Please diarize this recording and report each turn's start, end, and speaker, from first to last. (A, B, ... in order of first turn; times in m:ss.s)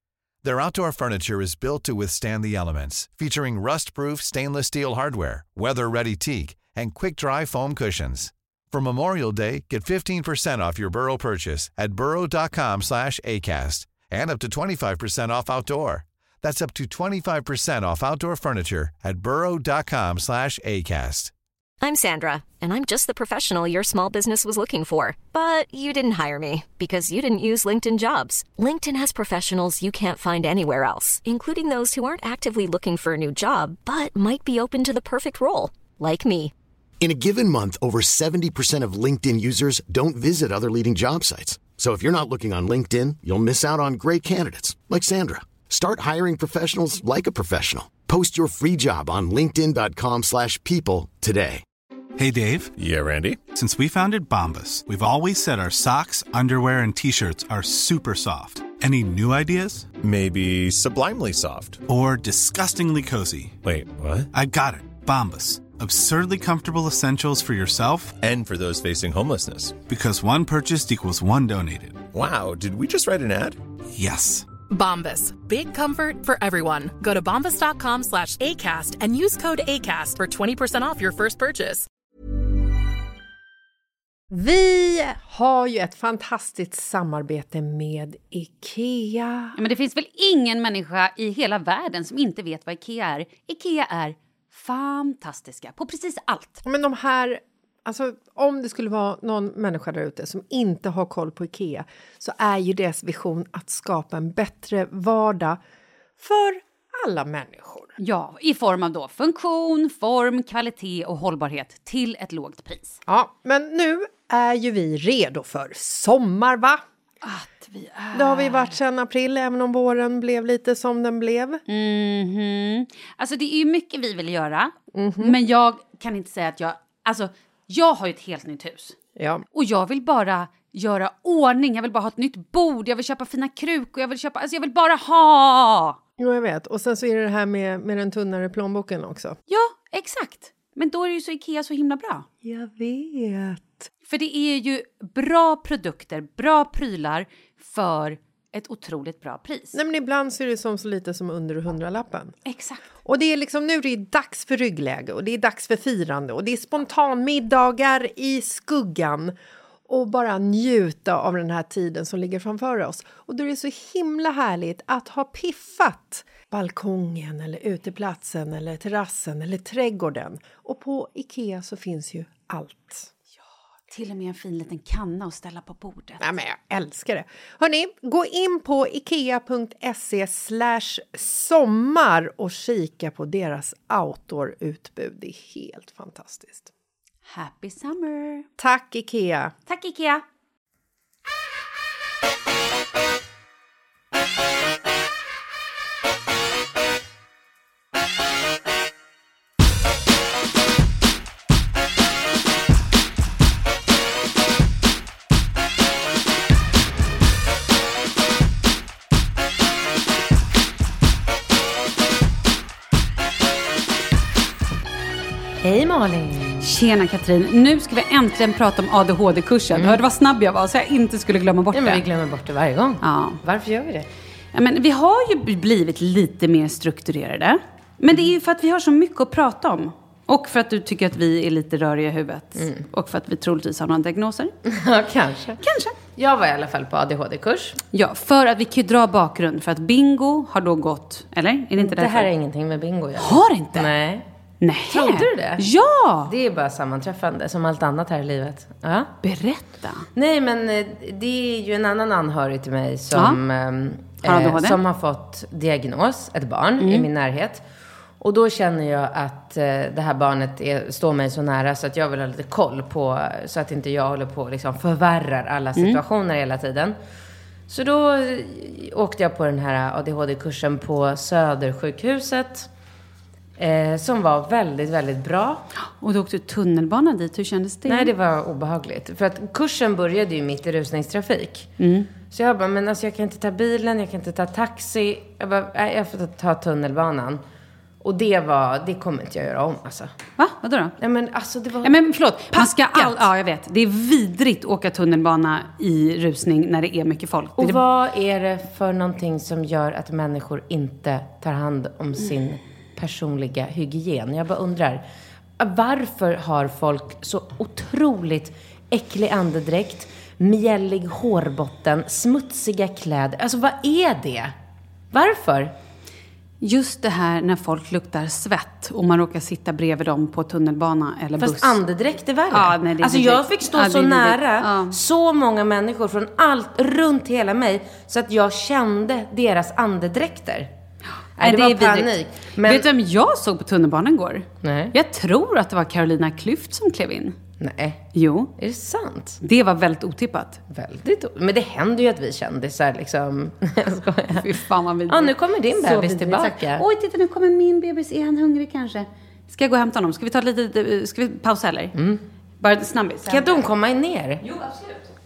0:00.4-0:21.3 A
0:21.8-0:36.5 B
0:37.0-0:51.6 C
0:52.2-0:52.7 D
0:52.8-0:53.4 E
0:53.4-0:59.9 D
1:00.0-1:01.8 E
1:01.9-1:03.6 D
1:03.6-1:04.3 E
1:04.3-1:08.2 D
1:08.2-1:09.8 E
1:09.8-1:12.0 D
1:12.1-1:13.6 E
1:13.9-1:14.4 D
1:14.7-1:21.9 F
1:24.3-1:29.6 G
1:29.6-1:36.6 H
1:36.6-1:45.6 G
1:46.2-1:47.9 G
1:48.0-1:53.0 H
1:53.1-1:56.8 G
1:57.2-1:58.8 H
1:58.1-2:01.6 G
2:01.7-2:09.0 H
2:04.9-2:05.4 G
2:09.2-2:09.4 G
2:09.5-2:16.0 H
2:16.2-2:19.4 G
2:19.5-2:22.2 H
2:22.4-2:23.9 G
2:24.1-2:29.8 H
2:29.7-2:32.3 G
2:32.4-2:32.8 H
2:33.0-2:39.3 G
2:39.9-2:53.1 G
2:53.9-2:56.2 H
2:56.2-3:06.7 G
3:07.3-3:08.5 H
3:08.6-3:09.5 G
3:09.7-3:10.2 H
3:35.6-3:36.7 I
3:36.6-3:42.0 H
3:39.7-3:40.0 I
3:41.7-3:44.1 I
3:43.0-3:43.4 H
3:44.5-3:54.5 H
3:54.7-3:55.6 I
3:55.6-3:55.9 H
3:56.2-3:57.8 I
3:57.9-4:02.3 H
4:01.8-4:04.2 I
4:03.2-4:03.9 H
4:04.6-4:06.3 H
4:04.9-4:05.6 I
4:06.2-4:09.1 I
4:09.2-4:10.1 H
4:10.2-4:17.6 I
4:13.1-4:13.4 H
4:14.2-4:14.8 H
4:16.8-4:17.1 H
4:18.2-4:27.0 I
4:25.8-4:26.0 H
4:27.7-4:32.7 I
4:33.6-4:35.6 I
4:36.0-4:38.1 H
4:37.9-4:41.7 I
4:41.8-4:42.1 H
4:42.3-4:47.4 I
4:48.0-4:50.1 I
4:50.4-4:51.0 H
4:51.0-4:51.9 I
4:51.8-4:57.8 H
4:52.5-4:53.2 I
4:57.6-5:05.0 I
5:05.6-5:14.5 I
5:15.1-5:15.7 I
5:16.6-5:21.8 H
5:21.4-5:30.7 I
5:22.5-5:25.0 H
5:31.4-5:32.8 I
5:31.4-5:37.4 H
5:34.6-5:34.9 I
5:37.6-5:38.0 I
5:38.1-5:38.5 H
5:38.6-5:39.4 I
5:39.4-5:40.6 H
5:40.7-5:44.5 I
5:44.3-5:51.9 H
5:45.1-5:46.8 I
5:51.9-5:52.2 I
5:52.6-5:53.6 H
5:53.3-5:54.4 I
5:54.4-5:55.0 H